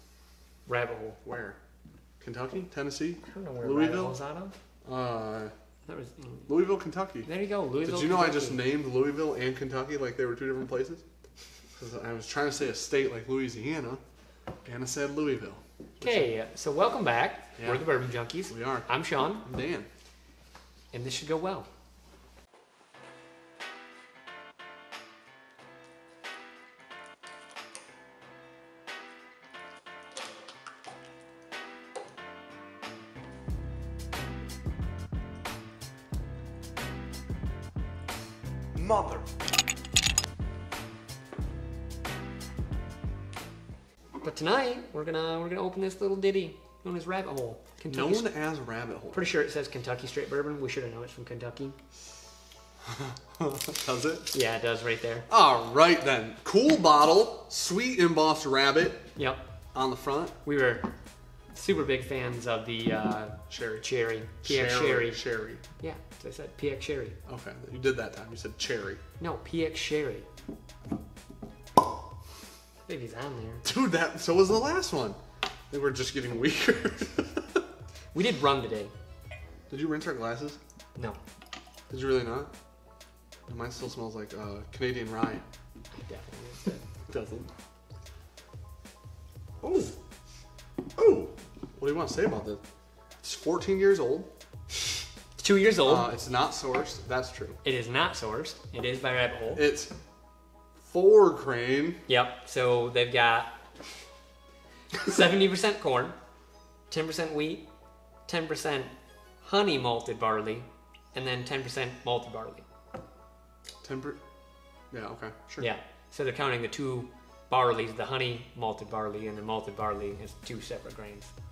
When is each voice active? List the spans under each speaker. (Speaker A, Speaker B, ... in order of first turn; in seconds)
Speaker A: 0.7-1.2, 3.2-4.5, 5.8-6.5, 7.2-8.6, 16.0-19.4, 20.9-21.7, 44.2-48.3, 49.1-51.8, 54.3-55.3, 59.1-59.4, 60.4-60.9, 61.5-65.2, 65.8-67.2, 69.2-70.3, 72.9-73.6, 78.1-78.9, 86.0-86.8, 95.4-96.1, 97.6-99.6, 102.1-103.5, 105.0-106.2, 106.9-107.6, 108.3-112.6, 115.6-121.3
Speaker B: 1.2-1.6, 2.2-4.2, 4.8-5.5, 6.5-7.3, 7.8-11.0, 11.8-14.0, 14.6-16.3, 17.6-17.9, 18.5-18.9, 19.4-19.9, 38.7-39.3, 47.9-49.3, 52.9-54.3, 55.3-59.0, 59.7-60.3, 63.5-63.8, 64.4-65.6, 67.3-69.0, 73.6-75.2, 75.7-77.6, 79.7-80.6, 81.9-82.5, 83.5-85.4, 87.1-87.5, 89.6-89.9, 91.0-92.6, 93.2-94.3, 95.8-97.6, 99.5-99.9, 100.8-102.0, 113.8-114.2, 114.9-115.7